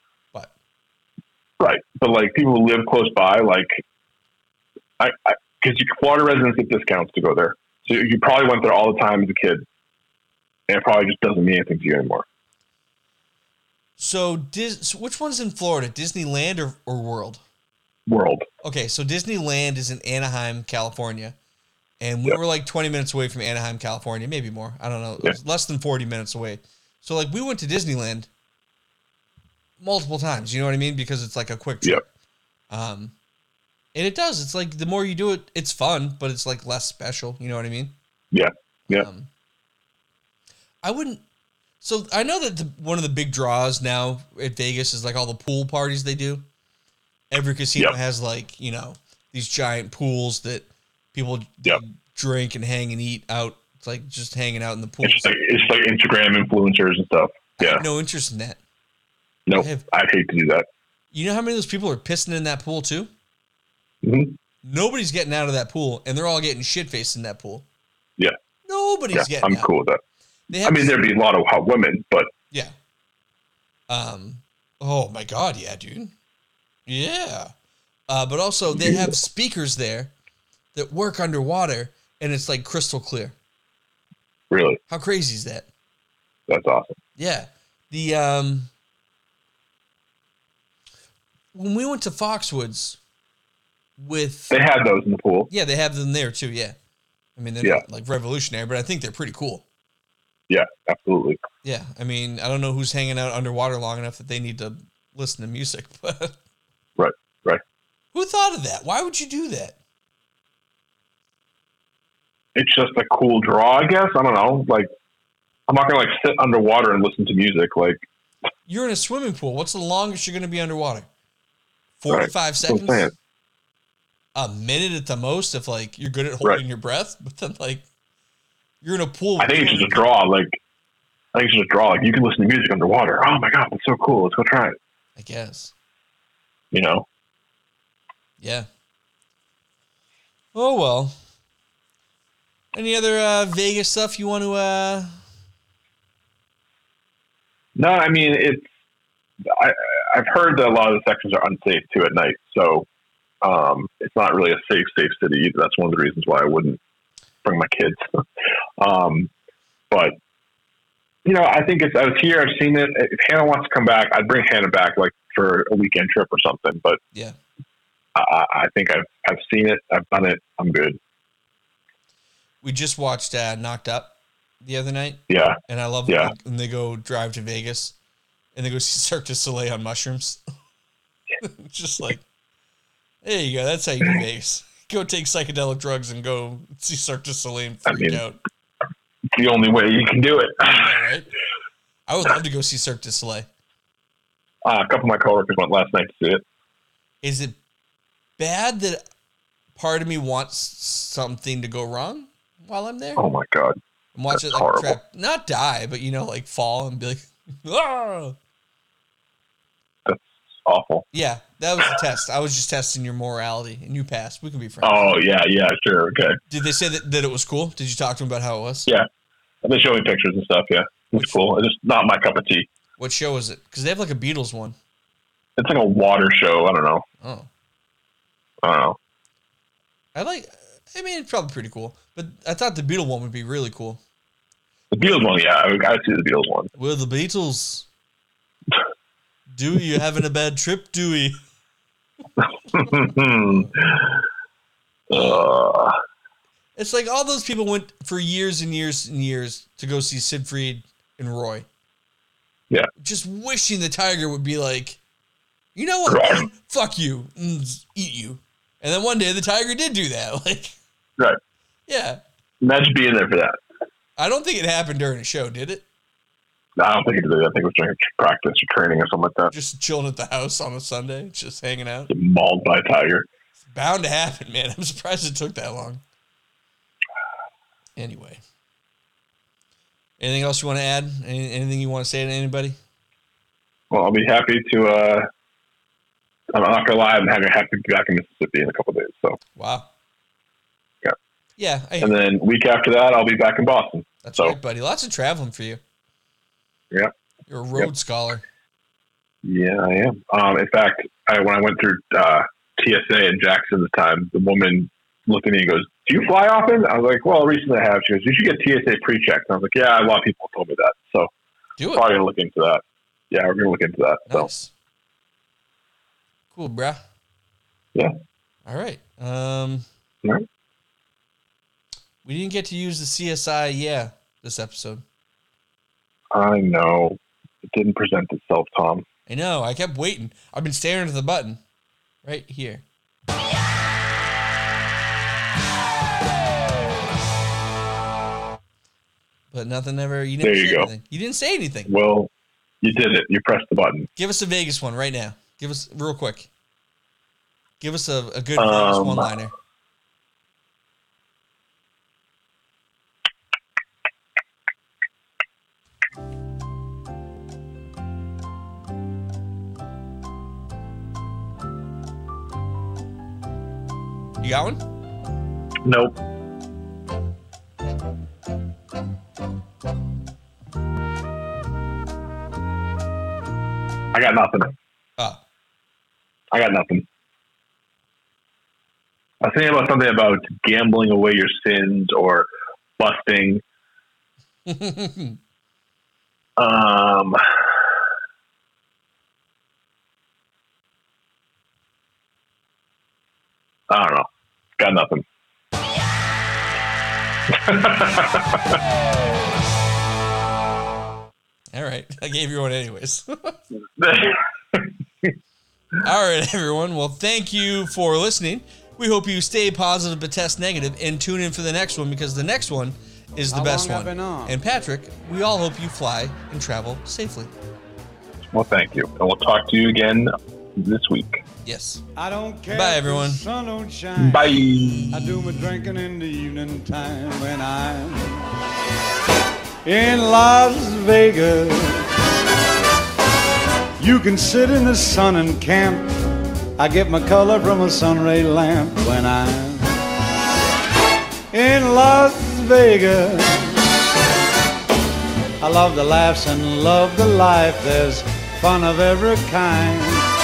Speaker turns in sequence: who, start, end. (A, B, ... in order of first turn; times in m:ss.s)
0:01.6-0:03.8 A
0:05.0-0:09.7 A
0:10.7-0:12.3 A
0:14.0-0:17.4 B
0:18.1-0:18.5 A
0:18.6-0:21.4 B
0:22.0-0:28.3 B
0:29.8-0:32.0 B
0:32.7-0:33.1 B
0:33.9-0:38.0 B
0:38.3-0:39.1 A
0:38.9-0:39.3 B
0:40.8-0:41.2 B
0:41.8-0:46.4 B
0:47.3-0:55.3 B
0:55.0-0:57.8 A
0:57.6-0:58.6 B
0:59.5-1:00.7 A
0:59.6-0:59.8 B
1:01.1-1:03.1 B
1:04.0-1:04.4 A
1:04.6-1:07.7 B
1:08.7-1:09.7 B
1:09.1-1:10.0 A
1:10.5-1:11.0 B
1:10.5-1:12.3 A
1:13.9-1:16.1 B
1:16.9-1:17.5 B
1:18.1-1:20.1 B
1:18.8-1:19.1 A
1:20.7-1:23.4 B
1:24.5-1:24.8 A
1:24.9-1:25.7 B
1:26.5-1:27.0 A
1:27.2-1:28.7 B
1:31.5-1:33.0 B
1:34.0-1:34.6 B
1:34.5-1:35.5 A
1:35.5-1:36.8 B
1:37.4-1:39.6 B
1:40.5-1:41.4 A
1:41.6-1:46.4 B
1:47.0-1:47.6 A
1:48.1-1:49.8 B
1:52.6-1:54.9 A
1:55.7-1:58.0 A
1:58.7-2:01.1 B
2:02.0-2:03.1 B
2:02.1-2:03.1 A
2:04.4-2:07.9 B
2:08.8-2:10.0 B
2:09.4-2:10.6 A
2:11.3-2:14.8 A
2:15.2-2:15.7 B
2:16.7-2:17.1 A
2:18.4-2:18.7 B
2:20.5-2:21.2 B
2:22.7-2:25.2 B
2:27.8-2:28.7 A
2:29.4-2:32.9 A
2:33.4-2:36.8 A
2:37.4-2:38.2 A
2:38.8-2:39.3 A
2:41.2-2:47.0 A
2:48.2-2:51.0 A
2:52.6-2:58.0 B
2:55.3-2:56.3 A
2:58.6-3:00.4 B
3:01.4-3:02.2 B
3:03.2-3:08.4 B
3:07.9-3:08.2 A
3:09.3-3:11.0 A
3:10.6-3:11.3 B
3:12.1-3:13.5 B
3:14.6-3:16.4 A
3:17.2-3:17.6 B
3:18.4-3:19.0 B
3:19.8-3:23.3 B
3:23.2-3:23.8 A
3:24.1-3:28.4 B
3:24.3-3:25.0 A
3:30.1-3:31.1 A
3:31.1-3:35.1 B
3:34.8-3:36.4 A
3:36.5-3:38.9 B
3:39.6-3:42.7 A
3:43.0-3:44.8 B
3:45.6-3:47.0 A
3:47.2-3:47.5 B
3:48.6-3:49.0 A
3:50.2-3:54.0 B
3:54.9-3:56.7 A
3:56.8-3:57.9 B
3:59.5-4:01.4 B
4:02.7-4:04.2 A
4:05.1-4:06.0 A
4:05.1-4:05.4 B
4:06.8-4:11.7 B
4:13.0-4:15.0 B
4:15.8-4:20.8 B
4:16.1-4:16.4 A
4:21.9-4:22.2 B
4:22.6-4:23.5 A
4:24.2-4:25.8 B
4:26.8-4:29.5 A
4:29.5-4:32.1 B
4:32.1-4:33.3 A
4:33.6-4:36.0 B
4:38.0-4:38.4 B
4:40.2-4:42.8 B
4:43.9-4:45.3 A
4:46.5-4:49.4 A
4:49.6-4:49.9 B
4:51.6-4:52.2 B
4:52.0-4:54.6 A
4:54.2-4:55.8 B
4:57.5-4:58.4 B
4:59.4-5:11.3 A
5:11.8-5:12.0 B
5:11.9-5:14.5 A
5:14.3-5:14.7 B
5:16.5-5:17.0 B
5:18.7-5:19.9 B
5:22.2-5:25.0 B
5:26.3-5:29.0 A
5:29.3-5:31.6 B
5:32.2-5:32.8 B
5:39.5-5:41.9 B
5:40.4-5:40.9 A
5:41.9-5:42.3 A
5:42.8-5:44.1 A
5:44.2-5:46.5 B
5:47.8-5:49.5 B
5:48.6-5:49.3 A
6:04.4-6:04.8 B
6:05.8-6:06.2 A
6:14.1-6:14.7 A
6:16.5-6:17.1 A
6:19.4-6:23.6 A
6:24.7-6:25.4 B
6:26.6-6:27.4 A
6:33.9-6:35.2 A
6:37.5-6:38.8 A
6:41.7-6:43.6 B
6:44.0-6:45.3 A
6:46.0-6:57.5 B
6:53.5-6:54.6 C
6:58.5-7:01.4 A
7:01.6-7:02.0 B
7:02.2-7:08.4 C
7:02.7-7:03.4 B
7:04.2-7:05.1 A
7:04.7-7:05.6 B
7:09.8-7:12.1 C
7:14.0-7:16.1 C
7:16.8-7:19.9 C
7:21.5-7:23.8 C
7:25.6-7:30.3 C